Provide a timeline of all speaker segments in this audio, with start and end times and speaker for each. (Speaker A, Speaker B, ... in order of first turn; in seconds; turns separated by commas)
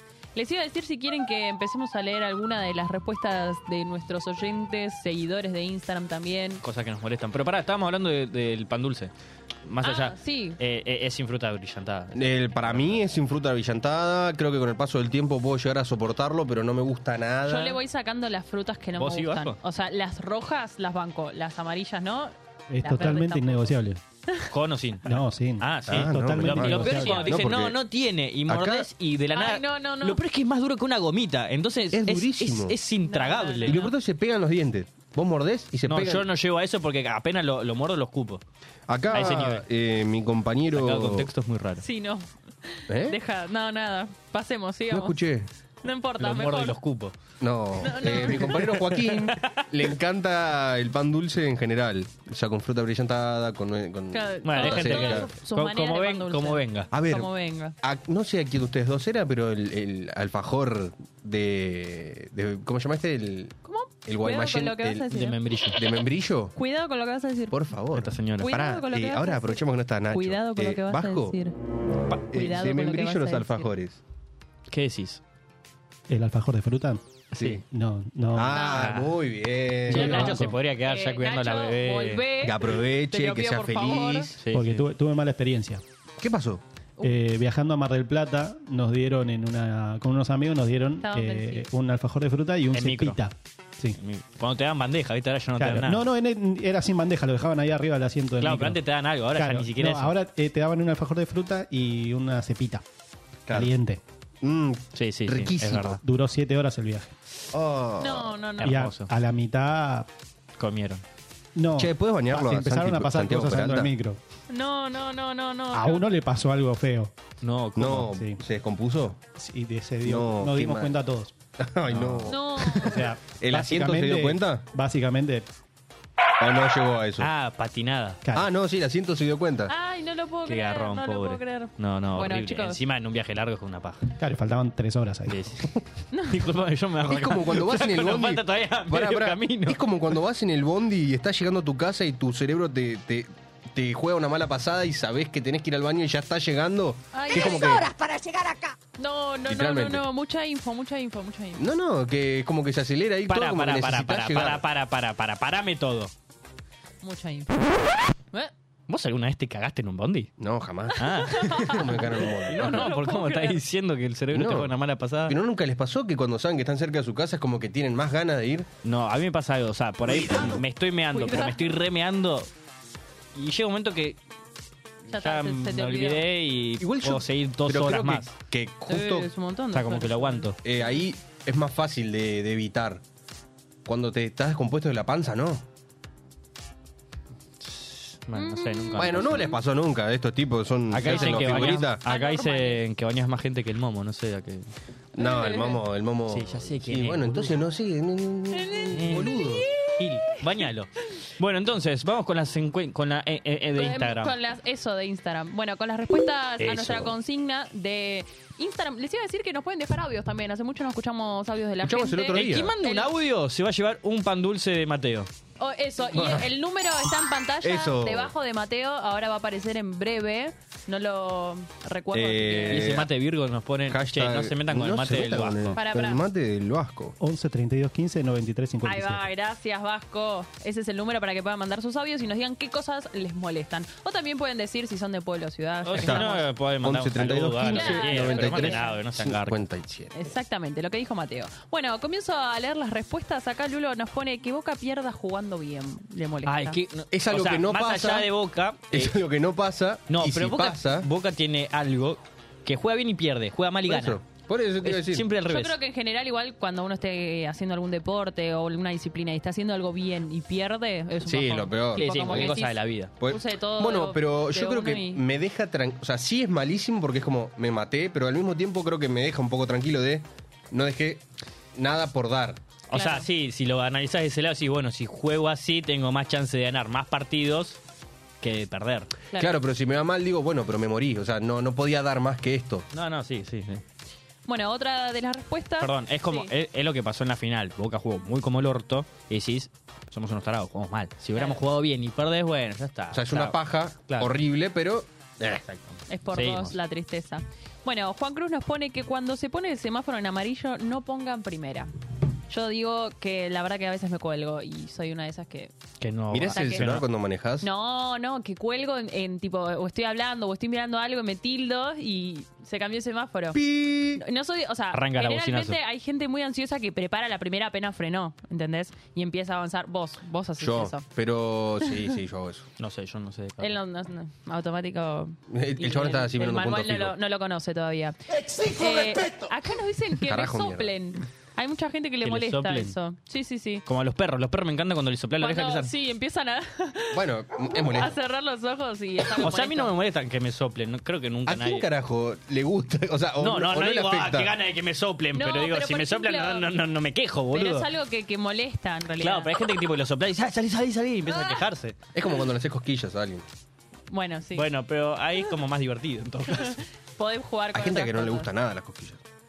Speaker A: 0.3-6.6, Speaker B: 6.6-9.1, Speaker B: 9.7-13.0, Speaker A: 9.8-10.6, Speaker C: 12.1-17.8, Speaker A: 17.5-23.8, Speaker B: 19.0-19.6, Speaker D: 22.7-24.0, Speaker B: 24.5-33.8, Speaker D: 25.1-27.2, Speaker C: 25.9-27.8, Speaker A: 26.8-27.5, Speaker C: 28.5-28.9, Speaker A: 29.4-30.2, Speaker C: 31.9-32.8, Speaker A: 33.1-33.9, Speaker C: 33.7-36.3, Speaker B: 35.9-38.4, Speaker C: 38.9-41.3, Speaker B: 39.1-39.6, Speaker B: 40.8-41.8, Speaker A: 41.8-45.1, Speaker C: 42.9-43.2, Speaker C: 44.9-45.5, Speaker A: 45.8-46.8, Speaker B: 46.2-47.1, Speaker C: 47.4-55.3, Speaker A: 47.8-48.6, Speaker B: 48.2-49.6, Speaker A: 54.1-57.7, Speaker B: 54.5-56.9, Speaker C: 56.9-57.3, Speaker C: 57.8-65.1, Speaker A: 63.7-65.9, Speaker B: 65.1-65.8, Speaker C: 65.7-66.5, Speaker A: 66.6-67.6, Speaker C: 67.5-71.4, Speaker B: 67.9-68.5, Speaker A: 68.4-71.5, Speaker C: 72.1-74.0, Speaker A: 72.3-73.7, Speaker B: 74.7-75.2, Speaker D: 76.1-77.0, Speaker B: 77.3-77.6, Speaker C: 77.3-77.6, Speaker D: 77.6-78.8, Speaker C: 78.3-80.4, Speaker A: 78.5-78.8, Speaker B: 78.8-79.1, Speaker D: 79.9-80.6, Speaker B: 79.9-82.2, Speaker A: 80.8-84.3, Speaker C: 82.4-84.4, Speaker B: 84.4-84.9, Speaker D: 84.5-85.8, Speaker C: 86.2-86.6, Speaker D: 87.0-94.0, Speaker A: 91.0-91.7, Speaker B: 92.7-93.2, Speaker B: 94.0-96.1, Speaker D: 95.6-98.8, Speaker B: 98.4-100.2, Speaker D: 99.3-102.8, Speaker C: 103.5-103.7, Speaker D: 103.5-104.0, Speaker C: 104.4-106.0, Speaker B: 105.0-106.0, Speaker D: 106.0-107.1, Speaker C: 107.5-108.4, Speaker A: 108.0-108.7, Speaker B: 108.6-109.1, Speaker D: 108.6-110.1, Speaker B: 110.6-111.0, Speaker D: 111.6-114.2, Speaker C: 111.8-113.9, Speaker A: 114.5-116.0, Speaker D: 115.7-117.1, Speaker B: 117.4-118.1, Speaker C: 117.8-119.2, Speaker D: 118.1-118.4, Speaker D: 119.4-121.3, Speaker C: 120.0-121.0, Speaker C: 121.6-124.6, Speaker D: 121.9-125.5, Speaker A: 122.3-123.0, Speaker C: 126.4-127.3, Speaker B: 127.2-128.2, Speaker C: 128.3-129.7, Speaker A: 129.7-132.8, Speaker B: 130.5-134.1, Speaker D: 134.2-135.4, Speaker B: 135.3-139.8, Speaker C: 137.1-147.9, Speaker A: 147.1-151.6, Speaker C: 149.5-150.1, Speaker C: 151.6-154.7, Speaker B: 153.3-156.1, Speaker A: 157.0-158.5, Speaker B: 158.9-160.3, Speaker C: 160.4-162.9, Speaker B: 161.0-165.4, Speaker A: 161.3-163.6, Speaker C: 164.3-164.7, Speaker C: 165.3-168.7, Speaker B: 168.8-172.5, Speaker C: 170.2-170.6, Speaker A: 171.1-171.6, Speaker B: 173.3-174.2, Speaker A: 175.1-176.2, Speaker B: 175.1-178.3, Speaker C: 176.8-179.3, Speaker A: 178.9-180.5, Speaker B: 179.7-180.6, Speaker C: 180.6-183.0, Speaker C: 183.9-185.7, Speaker B: 187.6-189.5, Speaker A: 188.3-189.6, Speaker C: 189.0-192.0, Speaker B: 190.9-194.7, Speaker A: 191.1-192.8, Speaker C: 195.1-199.7, Speaker A: 195.2-195.8, Speaker B: 196.3-197.6, Speaker A: 198.5-200.4, Speaker B: 198.9-199.3, Speaker B: 200.0-204.3, Speaker A: 203.8-213.1, Speaker C: 206.6-207.1, Speaker C: 211.8-212.7, Speaker B: 212.3-215.3, Speaker A: 215.6-223.0, Speaker C: 216.1-216.5, Speaker C: 217.6-218.3, Speaker C: 222.1-223.1, Speaker B: 222.7-225.8, Speaker C: 223.9-227.2, Speaker A: 225.8-226.2, Speaker D: 227.2-229.2, Speaker A: 228.8-236.5, Speaker B: 235.8-239.6, Speaker C: 235.9-240.1, Speaker A: 237.7-239.0, Speaker A: 240.1-246.8, Speaker B: 246.5-249.2, Speaker C: 247.1-248.3, Speaker C: 248.9-251.1, Speaker B: 250.1-254.2, Speaker C: 253.8-255.3, Speaker B: 254.8-255.8, Speaker A: 255.5-265.2, Speaker C: 261.2-262.6, Speaker B: 262.0-263.1, Speaker C: 263.2-272.6, Speaker B: 272.9-277.8, Speaker A: 272.9-273.3, Speaker B: 278.4-279.1, Speaker C: 279.4-282.9, Speaker B: 282.9-283.8, Speaker A: 284.5-286.5, Speaker B: 285.8-294.3, Speaker A: 291.4-291.6, Speaker C: 293.1-295.6, Speaker B: 295.5-296.8, Speaker A: 296.1-301.9, Speaker A: 302.5-305.7, Speaker B: 306.0-307.1, Speaker C: 306.3-307.7, Speaker A: 306.5-306.9, Speaker A: 307.6-313.6, Speaker C: 313.5-314.2, Speaker A: 314.1-321.1, Speaker B: 314.9-315.8, Speaker C: 320.6-322.7, Speaker B: 322.8-323.8, Speaker A: 323.6-333.9, Speaker C: 325.5-327.2, Speaker C: 330.2-330.9, Speaker B: 332.2-332.9, Speaker B: 333.9-335.9, Speaker A: 335.4-339.9, Speaker C: 337.1-338.1, Speaker B: 339.4-341.9, Speaker C: 341.5-344.5, Speaker B: 343.4-347.9, Speaker A: 345.4-346.7, Speaker A: 347.5-349.5, Speaker B: 349.2-352.0, Speaker A: 351.3-351.6, Speaker C: 352.1-353.5, Speaker A: 354.1-354.7, Speaker B: 354.6-356.8, Speaker A: 356.6-358.5, Speaker C: 357.7-359.2